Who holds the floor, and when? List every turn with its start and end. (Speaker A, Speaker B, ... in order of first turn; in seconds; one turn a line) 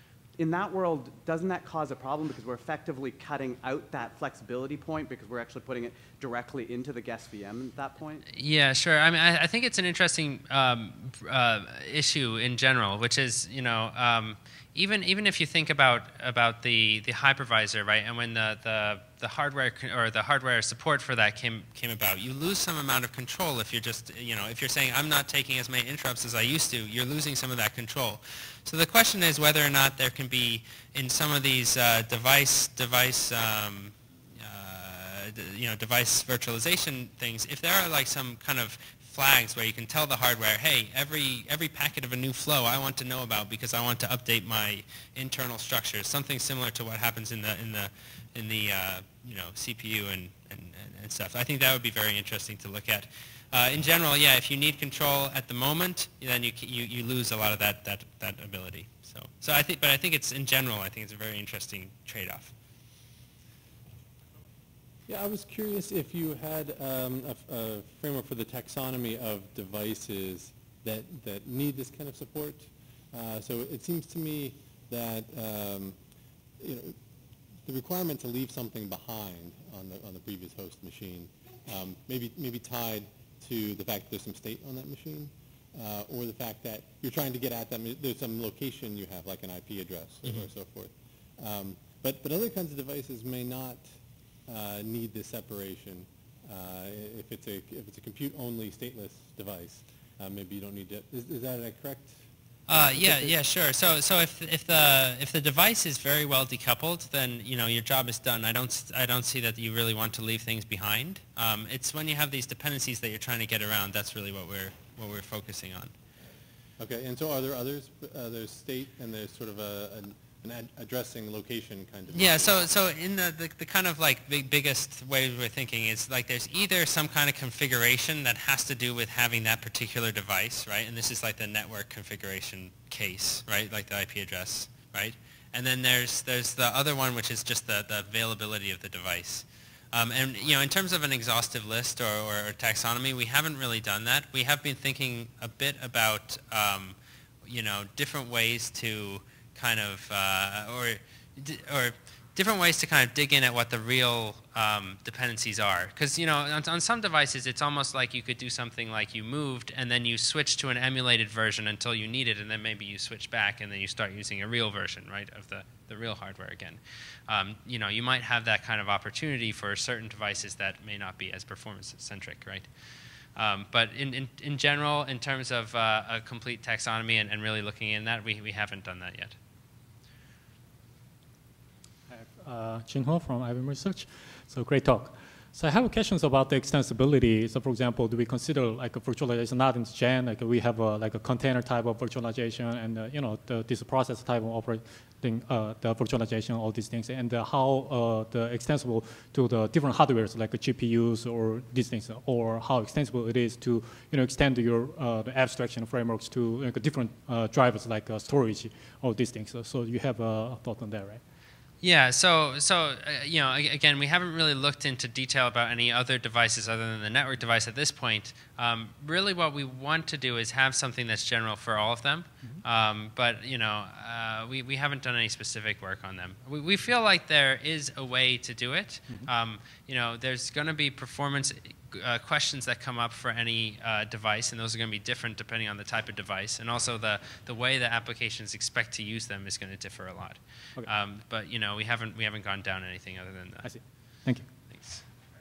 Speaker A: 0.4-8.2
Speaker B: 8.3-62.5
Speaker C: 65.1-76.0
Speaker C: 76.6-77.0
Speaker C: 77.6-93.8
Speaker C: 94.5-102.2
Speaker B: 102.7-115.9
Speaker C: 102.9-103.4
Speaker C: 116.8-122.7
Speaker B: 122.1-172.7
Speaker B: 173.3-179.3
Speaker D: 182.1-211.2
Speaker B: 211.8-243.7
Speaker D: 243.6-244.5
Speaker B: 244.7-245.0